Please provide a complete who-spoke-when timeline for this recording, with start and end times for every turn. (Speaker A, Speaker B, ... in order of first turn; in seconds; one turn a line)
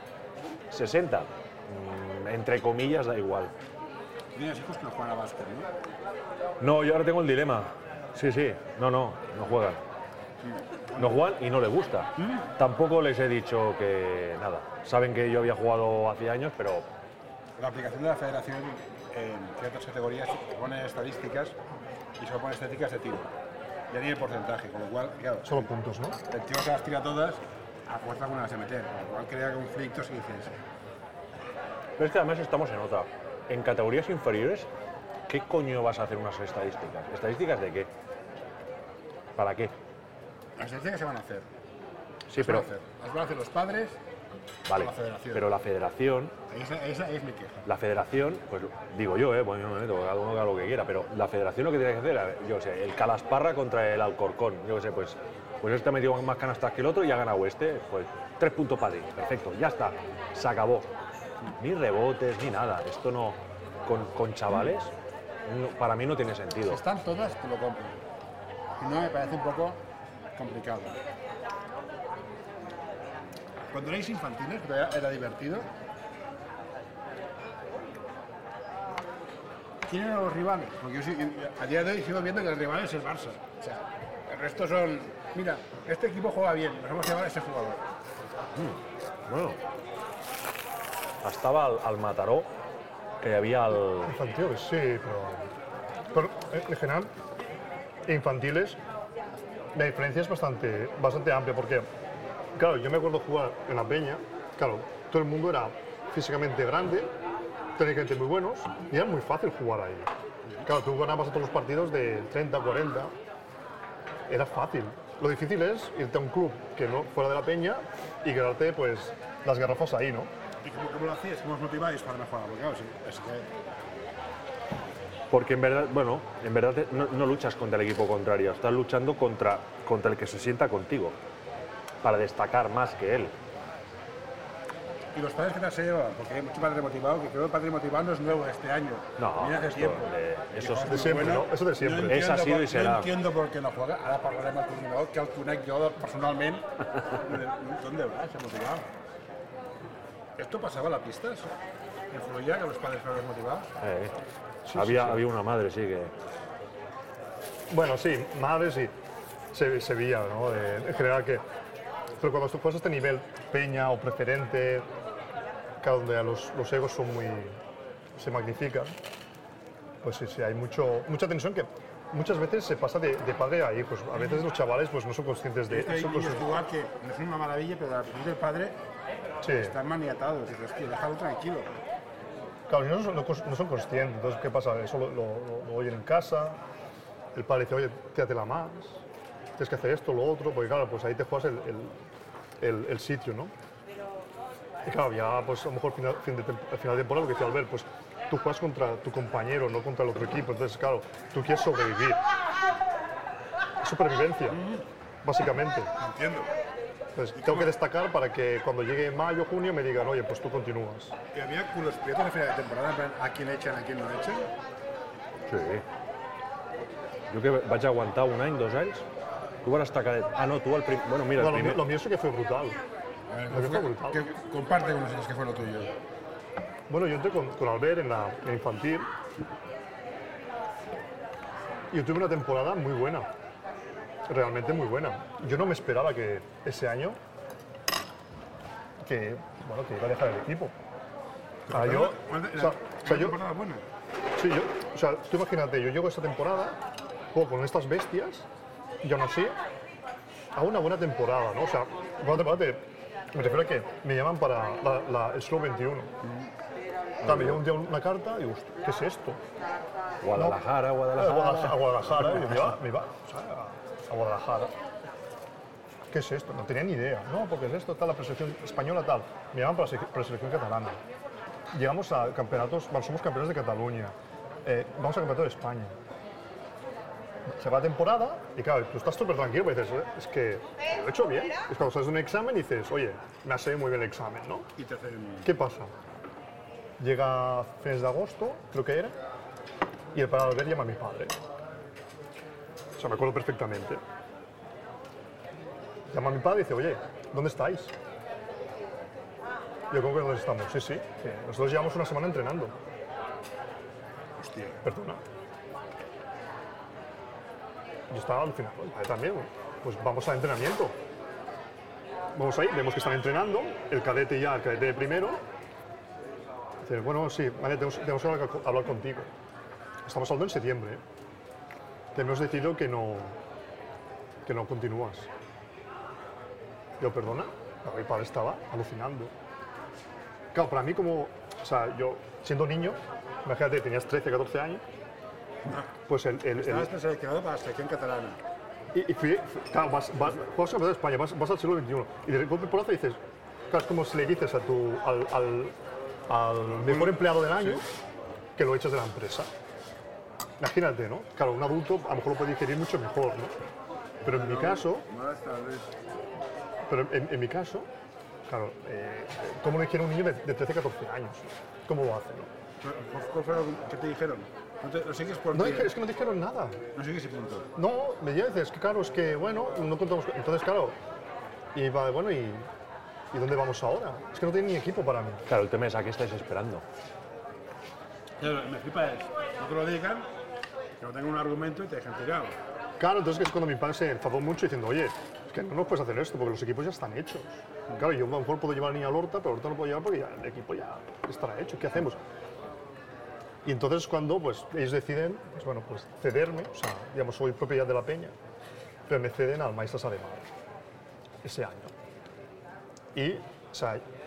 Speaker A: 0.7-3.5
Speaker B: 4.3-5.7
Speaker A: 6.6-9.8
Speaker B: 10.4-11.2
Speaker A: 11.0-16.9
Speaker B: 12.2-12.5
Speaker B: 17.6-21.5
Speaker B: 22.2-23.3
Speaker B: 23.9-25.6
Speaker C: 25.4-26.2
Speaker B: 26.3-30.6
Speaker A: 32.0-34.7
Speaker A: 35.3-37.9
Speaker A: 39.4-39.7
Speaker B: 40.6-41.5
Speaker A: 42.3-42.7
Speaker B: 42.4-44.0
Speaker A: 44.7-46.3
Speaker B: 44.8-45.5
Speaker B: 46.5-47.6
Speaker A: 47.6-60.9
Speaker A: 61.5-64.9
Speaker A: 65.5-66.8
Speaker B: 66.7-68.0
Speaker B: 68.8-69.8
Speaker B: 70.3-71.0
Speaker B: 73.7-75.7
Speaker B: 79.8-87.8
Speaker A: 88.5-89.6
Speaker A: 91.2-92.5
Speaker A: 93.2-94.1
Speaker C: 94.0-95.5
Speaker C: 96.1-97.1
Speaker C: 98.0-98.8
Speaker C: 99.7-101.8
Speaker C: 102.5-107.1
Speaker C: 107.8-110.1
Speaker C: 110.6-113.1
Speaker C: 114.3-120.3
Speaker B: 120.6-123.5
Speaker A: 125.3-131.2
Speaker A: 132.0-133.3
Speaker B: 135.1-146.7
Speaker A: 139.2-141.2
Speaker C: 140.8-142.3
Speaker A: 142.1-143.1
Speaker B: 147.2-148.9
Speaker B: 150.4-151.5
Speaker B: 152.1-153.7
Speaker A: 153.8-154.1
Speaker C: 154.6-155.2
Speaker A: 154.7-156.1
Speaker C: 157.7-158.9
Speaker C: 159.5-161.4
Speaker C: 162.2-164.9
Speaker C: 165.8-167.6
Speaker C: 168.1-168.9
Speaker C: 170.0-176.5
Speaker B: 175.7-178.8
Speaker C: 179.4-179.8
Speaker B: 179.6-181.8
Speaker C: 182.7-186.6
Speaker C: 187.3-189.0
Speaker C: 189.6-191.9
Speaker C: 192.6-193.5
Speaker C: 194.8-202.2
Speaker C: 203.8-204.6
Speaker C: 205.2-205.9
Speaker B: 206.0-206.5
Speaker C: 207.1-211.1
Speaker B: 207.4-207.7
Speaker B: 211.3-214.5
Speaker A: 215.5-215.8
Speaker A: 217.3-219.0
Speaker A: 219.6-221.8
Speaker C: 221.3-222.8
Speaker B: 223.3-225.9
Speaker C: 223.5-224.2
Speaker C: 226.9-229.1
Speaker C: 231.9-233.3
Speaker C: 234.3-237.2
Speaker C: 239.0-240.7
Speaker B: 241.7-243.8
Speaker C: 241.7-243.4
Speaker C: 244.4-246.8
Speaker C: 247.3-248.4
Speaker C: 249.0-249.6
Speaker C: 250.5-256.2
Speaker A: 257.2-257.6
Speaker C: 257.2-259.4
Speaker A: 260.2-262.7
Speaker C: 260.3-260.6
Speaker C: 261.1-264.7
Speaker C: 266.1-271.0
Speaker C: 271.7-274.1
Speaker C: 274.6-275.9
Speaker C: 277.4-284.7
Speaker B: 284.8-285.5
Speaker C: 285.4-285.9
Speaker C: 287.0-289.1
Speaker C: 290.1-291.4
Speaker C: 293.0-294.0
Speaker C: 296.1-297.9
Speaker C: 299.9-302.7
Speaker B: 304.4-304.8
Speaker C: 304.8-305.2
Speaker C: 308.1-310.9
Speaker C: 312.3-315.4
Speaker C: 316.8-319.3
Speaker C: 320.1-321.0
Speaker C: 322.1-323.4
Speaker C: 324.4-325.3
Speaker C: 327.0-329.3
Speaker C: 330.5-334.8
Speaker C: 336.1-336.9
Speaker B: 336.5-338.4
Speaker C: 338.9-345.7
Speaker C: 346.3-347.8
Speaker B: 346.8-347.8
Speaker C: 348.6-349.5
Speaker C: 350.6-353.5
Speaker C: 354.2-355.0
Speaker B: 354.2-355.9
Speaker C: 356.9-357.9
Speaker C: 358.5-362.5
Speaker B: 362.8-365.9
Speaker C: 365.5-366.8
Speaker B: 366.9-367.7
Speaker C: 367.8-371.0
Speaker C: 371.7-372.6
Speaker C: 373.3-375.4
Speaker A: 375.5-376.8
Speaker B: 378.4-380.2
Speaker B: 381.0-382.6
Speaker C: 383.0-392.2
Speaker C: 393.6-398.3
Speaker C: 399.1-400.5
Speaker C: 401.4-401.9
Speaker C: 403.1-404.0